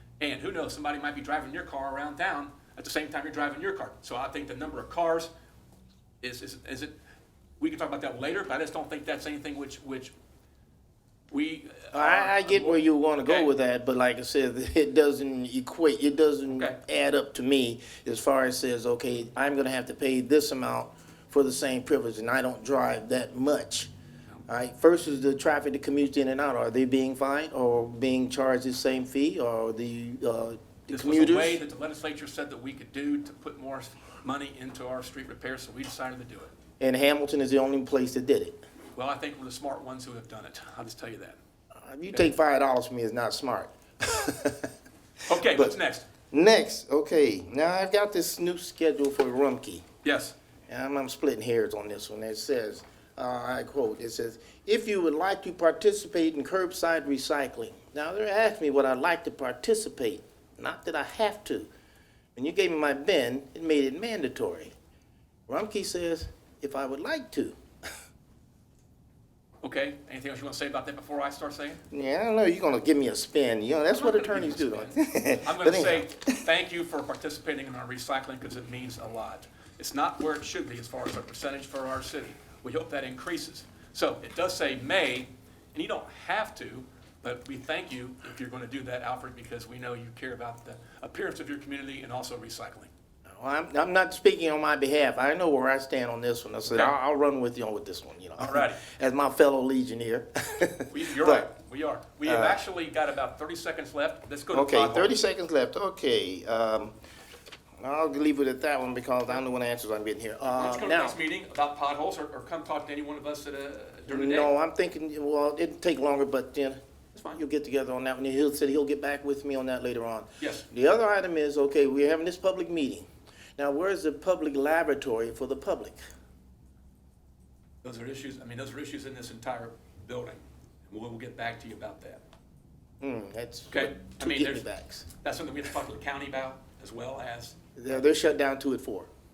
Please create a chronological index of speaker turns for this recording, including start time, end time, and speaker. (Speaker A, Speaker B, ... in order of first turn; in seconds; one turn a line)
Speaker A: 0.2-5.3
Speaker A: 6.2-7.0
Speaker A: 7.6-10.1
Speaker A: 11.3-13.5
Speaker B: 11.9-23.9
Speaker B: 24.5-31.6
Speaker A: 30.9-36.5
Speaker B: 36.8-38.6
Speaker A: 39.0-41.4
Speaker B: 41.7-44.7
Speaker A: 45.2-46.1
Speaker B: 45.4-45.7
Speaker B: 46.3-49.8
Speaker A: 50.0-50.3
Speaker B: 50.7-61.7
Speaker B: 62.4-64.7
Speaker B: 65.5-67.5
Speaker A: 69.6-71.8
Speaker B: 71.9-76.4
Speaker A: 73.9-92.9
Speaker B: 93.2-101.5
Speaker A: 98.4-98.8
Speaker A: 100.9-105.2
Speaker B: 102.2-102.6
Speaker B: 104.5-107.0
Speaker B: 107.8-111.2
Speaker A: 110.4-114.5
Speaker B: 114.1-116.8
Speaker A: 117.1-117.4
Speaker B: 117.3-126.0
Speaker A: 120.4-120.7
Speaker A: 127.8-132.2
Speaker B: 133.0-135.1
Speaker A: 133.7-137.6
Speaker B: 137.8-139.1